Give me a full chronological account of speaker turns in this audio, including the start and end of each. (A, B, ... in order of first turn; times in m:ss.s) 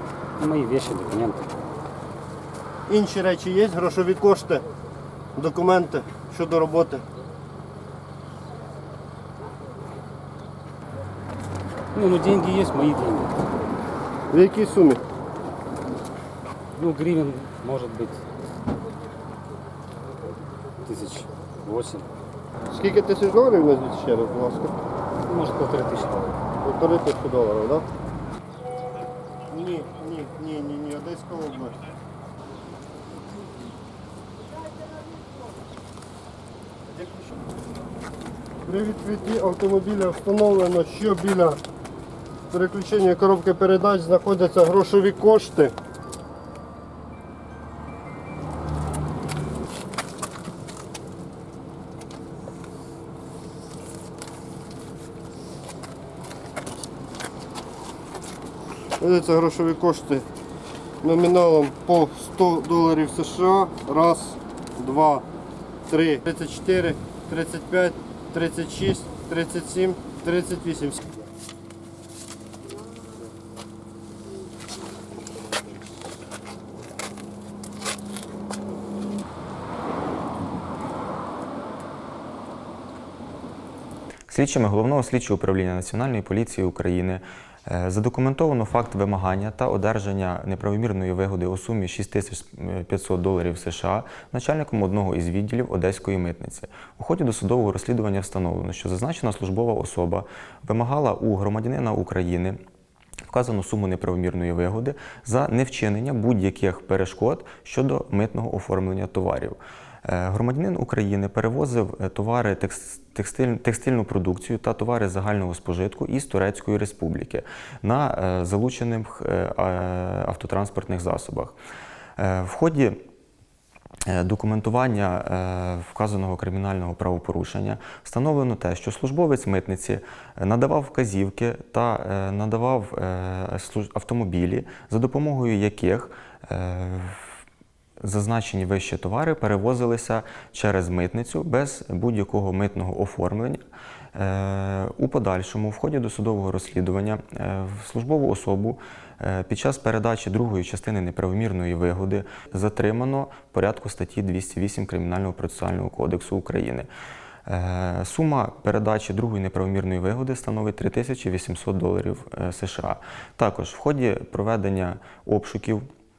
0:00.4-0:01.5 A
0:02.9-0:04.6 B
0:05.4-0:07.0 B
0:11.9-0:13.4 A
0:14.3-0:15.0 B
0:16.8-0:18.2 A
0:20.8-0:22.1 A
0:22.7-0:24.8 B
0:25.3-0:26.3 A
0:26.6-0:27.9 B
0:29.5-0:31.8 B
0:38.6-0:41.6 B
0:42.5-0:45.8 B
0:59.0-1:00.3 B
1:01.0-1:05.3 B
1:05.9-1:11.0 B
1:24.3-1:42.6 C
1:43.3-2:01.6 C
2:02.2-2:03.0 C
2:04.1-2:17.4 C
2:18.0-2:23.6 C
2:24.2-2:36.9 C
2:37.5-2:45.9 C